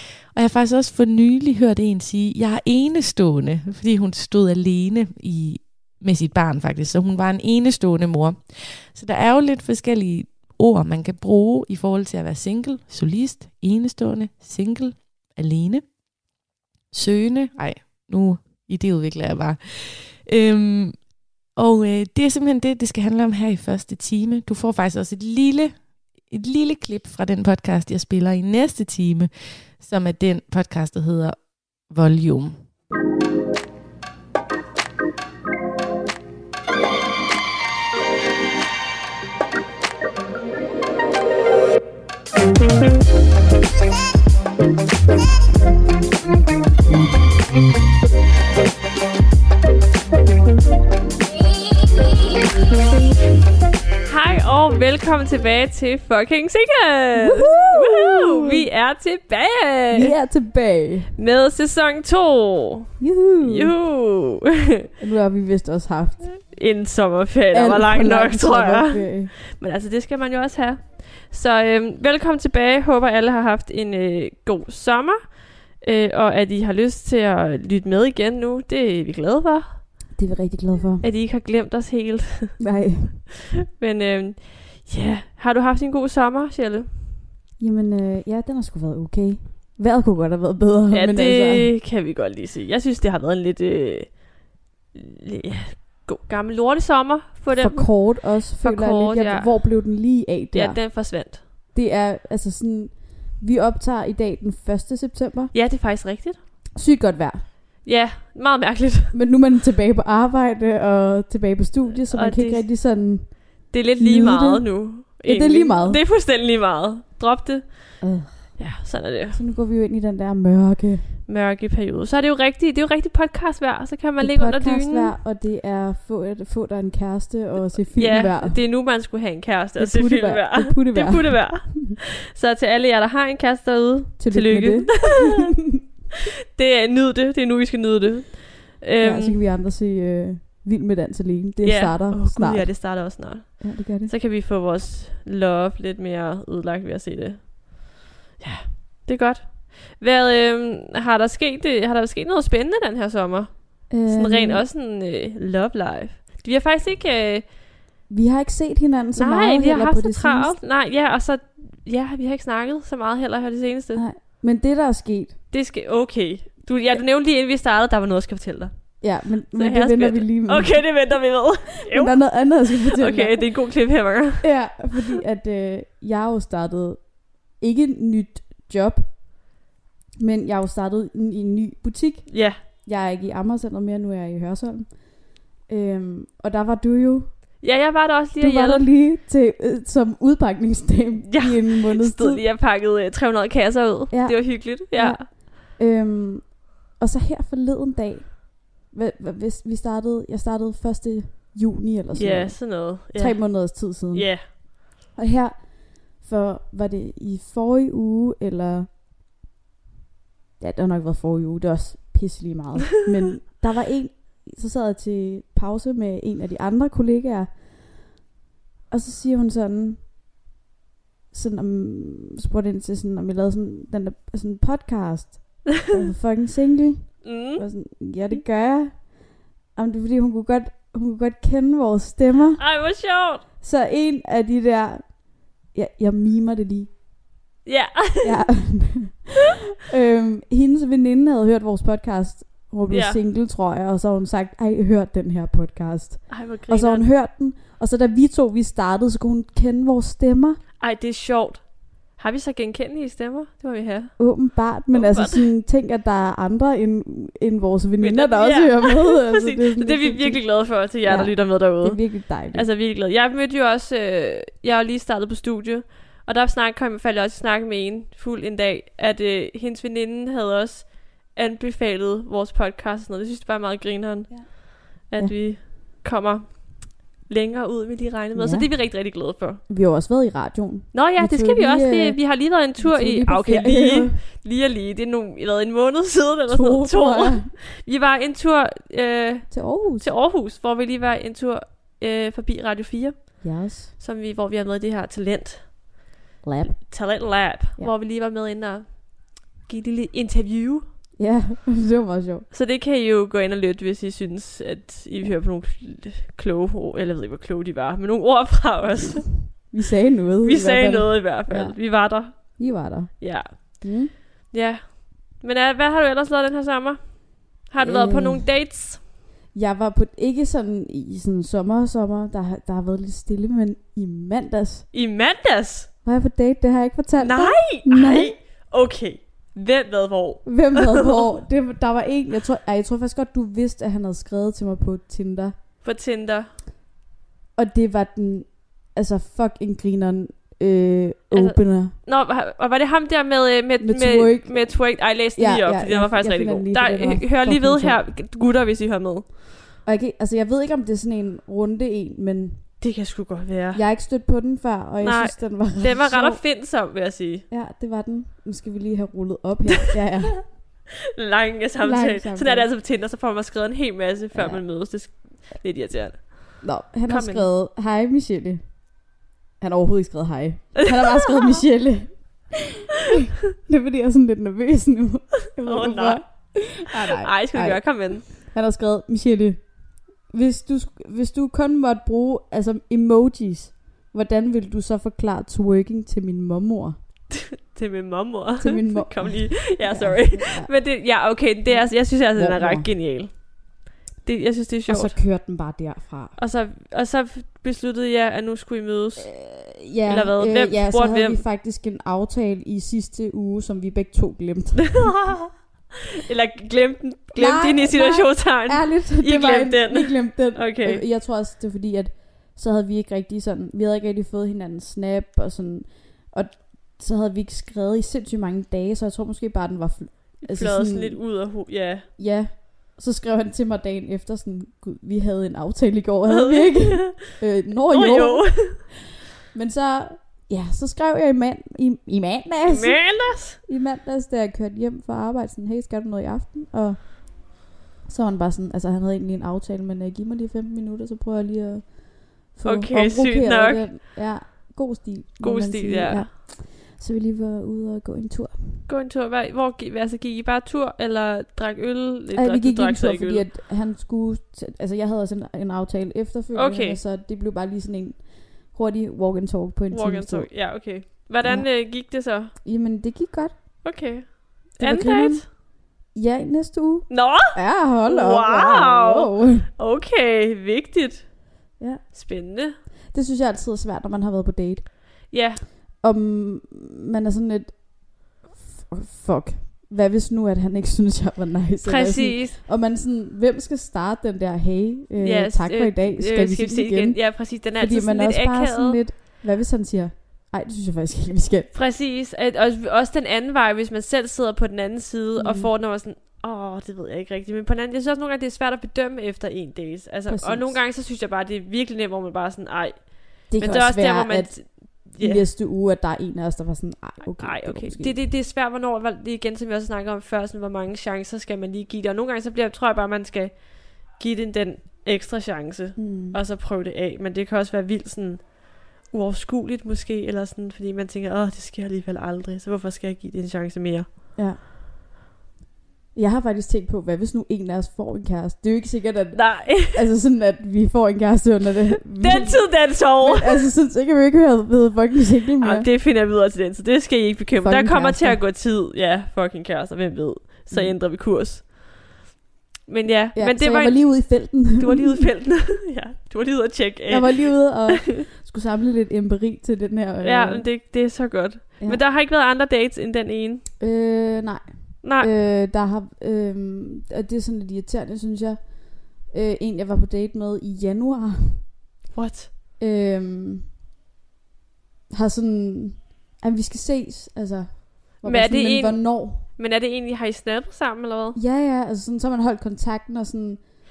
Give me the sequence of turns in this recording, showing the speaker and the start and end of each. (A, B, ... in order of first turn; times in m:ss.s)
0:00.3-0:15.8 A
0:16.9-0:32.6 A
0:54.0-1:00.1 B
0:57.2-0:58.6 C
0:59.9-1:01.1 C
1:01.2-1:04.9 B
1:03.0-1:03.8 C
1:05.0-1:06.4 C
1:06.4-1:19.8 B
1:07.5-1:09.3 C
1:20.2-1:21.0 C
1:21.0-1:22.6 B
1:22.6-1:23.2 C
1:23.8-1:27.2 B
1:27.6-1:31.7 C
1:30.9-1:39.6 B
1:37.6-1:41.2 C
1:40.5-1:41.4 B
1:41.7-1:45.5 C
1:45.5-1:46.4 B
1:46.8-1:47.4 C
1:47.8-1:49.2 B
1:49.1-1:56.0 C
1:52.1-1:52.6 B
1:53.7-1:59.4 B
1:58.0-1:58.7 C
1:59.3-2:01.2 C
2:01.3-2:05.1 B
2:04.2-2:08.6 C
2:08.0-2:15.5 B
2:09.8-2:12.0 C
2:14.2-2:15.5 C
2:16.5-2:19.4 B
2:19.0-2:24.1 C
2:21.6-2:37.5 B
2:33.9-2:34.6 C
2:38.1-2:40.6 C
2:39.2-2:44.0 B
2:44.0-2:45.4 C
2:45.5-2:49.0 B
2:49.0-2:51.0 C
2:49.5-2:54.5 B
2:51.9-2:53.4 C
2:54.4-2:59.2 C
3:00.2-3:05.0 C
3:02.3-3:02.6 B
3:05.7-3:07.3 C
3:07.6-3:08.9 B
3:08.4-3:12.4 C
3:11.3-3:15.3 B
3:14.1-3:24.6 C
3:22.2-3:24.5 B
3:25.1-3:28.9 C
3:30.6-3:37.6 C
3:38.9-3:40.0 C
3:41.3-3:49.1 C
3:47.2-3:47.7 B
3:49.8-3:52.6 C
3:52.6-3:53.4 B
3:53.6-3:57.0 C
3:57.6-3:58.6 B
3:58.2-3:59.2 C
3:59.8-4:10.6 C
4:02.9-4:03.2 B
4:06.3-4:07.1 B
4:10.8-4:14.2 B
4:14.2-4:22.6 C
4:14.9-4:15.5 B
4:18.0-4:39.6 B
4:38.4-4:38.7 C
4:39.7-4:44.2 C
4:40.9-4:56.1 B
4:46.5-4:47.5 C
4:49.5-4:50.1 C
4:53.4-4:53.9 C
4:56.4-4:57.9 C
4:56.6-5:00.9 B
5:01.2-5:02.5 C
5:02.5-5:09.5 B
5:09.7-5:14.1 C
5:10.4-5:13.8 B
5:14.5-5:19.0 B
5:17.8-5:18.5 C
5:19.5-5:24.9 C
5:24.9-5:25.9 B
5:26.0-5:28.4 C
5:27.2-5:31.3 B
5:30.4-5:35.6 C
5:35.8-5:36.5 B
5:37.6-5:42.0 C
5:41.3-5:49.3 B
5:43.8-5:48.0 C
5:49.8-5:52.7 C
5:52.8-5:53.8 B
5:53.7-5:56.4 C
5:55.0-5:57.4 B
5:57.5-6:00.6 C
6:01.2-6:07.5 B
6:01.8-6:02.7 C
6:04.3-6:04.6 C
6:06.6-6:08.8 C
6:09.6-6:12.6 C
6:10.9-6:11.3 B
6:13.4-6:19.7 C
6:15.6-6:18.3 B
6:20.3-6:27.0 C
6:27.3-6:35.2 B
6:28.6-6:30.8 C
6:31.7-6:32.9 C
6:34.9-6:36.4 C
6:36.4-6:39.4 B
6:39.2-6:45.1 C
6:40.1-6:41.4 B
6:45.0-6:45.6 B
6:46.2-6:51.0 B
6:47.4-7:01.3 C
7:00.4-7:02.1 B
7:02.2-7:09.0 C
7:06.3-7:08.8 B
7:09.5-7:28.8 C
7:12.7-7:13.6 B
7:22.6-7:23.9 B
7:25.4-7:26.3 B
7:28.9-7:33.5 B
7:32.4-7:43.8 C
7:36.5-7:37.0 B
7:39.9-7:42.5 B
7:43.8-7:45.4 B
7:44.8-7:49.7 C
7:47.1-7:51.3 B
7:51.8-7:52.1 C
7:52.1-7:52.8 B
7:53.1-7:55.3 C
7:55.3-7:55.6 B
7:56.0-8:11.7 C
8:01.9-8:02.6 B
8:05.2-8:09.0 B
8:11.7-8:25.5 B
8:15.4-8:15.7 C
8:20.3-8:20.8 C
8:23.5-8:28.2 C
8:27.4-8:44.1 B
8:36.0-8:36.4 C
8:46.1-8:55.9 C
8:49.3-8:50.0 B
8:52.2-8:53.7 B
8:55.6-9:01.7 B
8:57.6-8:58.4 C
9:00.7-9:01.0 C
9:02.9-9:08.2 B
9:03.3-9:05.3 C
9:07.1-9:10.7 C
9:10.2-9:13.6 B
9:13.8-9:21.7 C
9:15.0-9:15.3 B
9:22.1-9:22.5 B
9:22.8-9:23.7 C
9:25.1-9:29.5 C
9:28.2-9:31.4 B
9:31.3-9:33.6 C